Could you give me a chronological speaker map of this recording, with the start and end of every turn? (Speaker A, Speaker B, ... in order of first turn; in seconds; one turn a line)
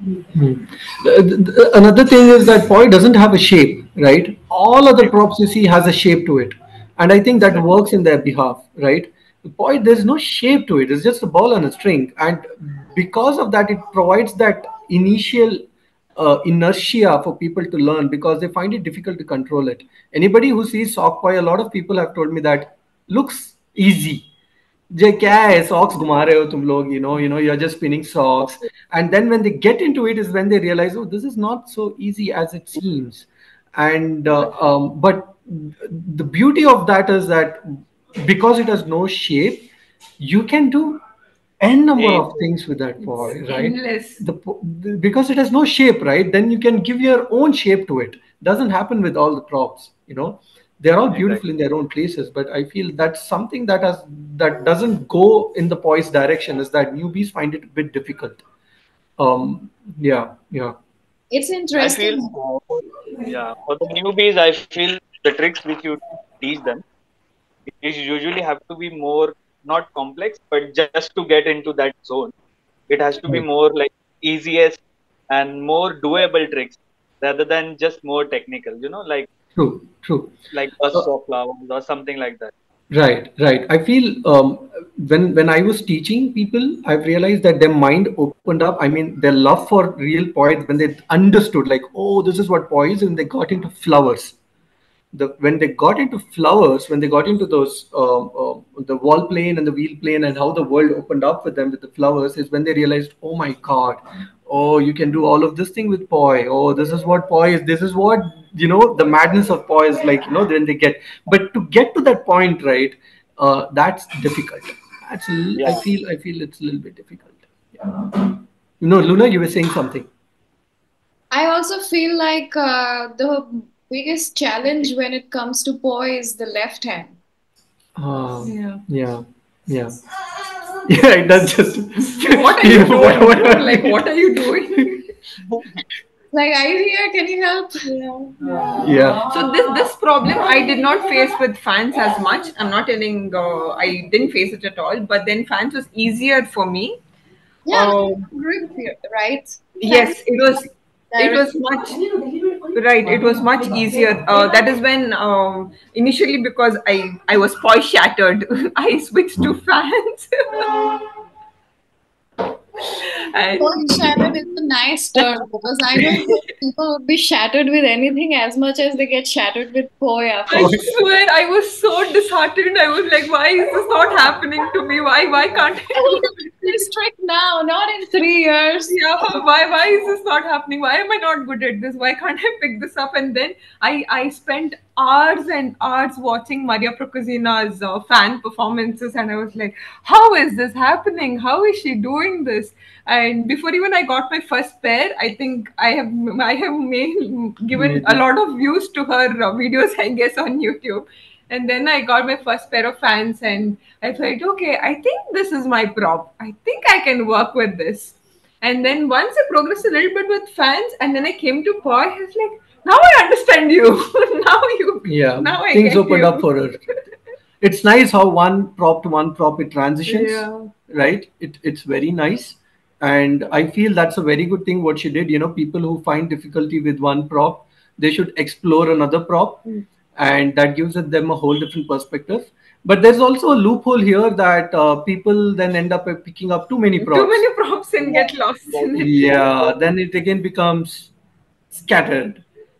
Speaker A: 0.1-15.6
Speaker A: 16.1-24.3
Speaker A: 24.9-41.0
Speaker A: 41.6-58.4
Speaker B: 42.0-42.5
Speaker C: 43.0-44.2
Speaker B: 51.1-51.4
Speaker A: 59.2-60.8
Speaker D: 61.3-62.3
Speaker B: 61.8-66.8
Speaker B: 67.7-72.3
Speaker B: 72.9-79.3
Speaker A: 79.5-80.3
Speaker B: 80.5-82.5
Speaker A: 82.9-94.3
Speaker A: 95.1-120.1
Speaker B: 115.5-115.8
Speaker D: 121.3-127.2
Speaker A: 128.0-130.0
Speaker C: 128.4-128.8
Speaker A: 130.8-134.0
Speaker C: 132.0-135.0
Speaker D: 136.3-137.9
Speaker C: 137.9-147.0
Speaker A: 138.8-139.3
Speaker D: 147.6-150.3
Speaker C: 147.7-148.2
Speaker C: 149.8-152.0
Speaker D: 151.1-151.5
Speaker C: 152.7-160.9
Speaker C: 162.8-164.3
Speaker D: 163.6-170.8
Speaker C: 165.2-166.4
Speaker C: 170.5-176.3
Speaker D: 175.9-179.0
Speaker C: 178.9-216.4
Speaker A: 197.7-198.2
Speaker A: 215.0-216.8
Speaker A: 217.6-237.4
Speaker C: 220.1-220.7
Speaker C: 237.0-239.6
Speaker B: 238.1-239.5
Speaker A: 239.0-241.1
Speaker A: 241.7-242.4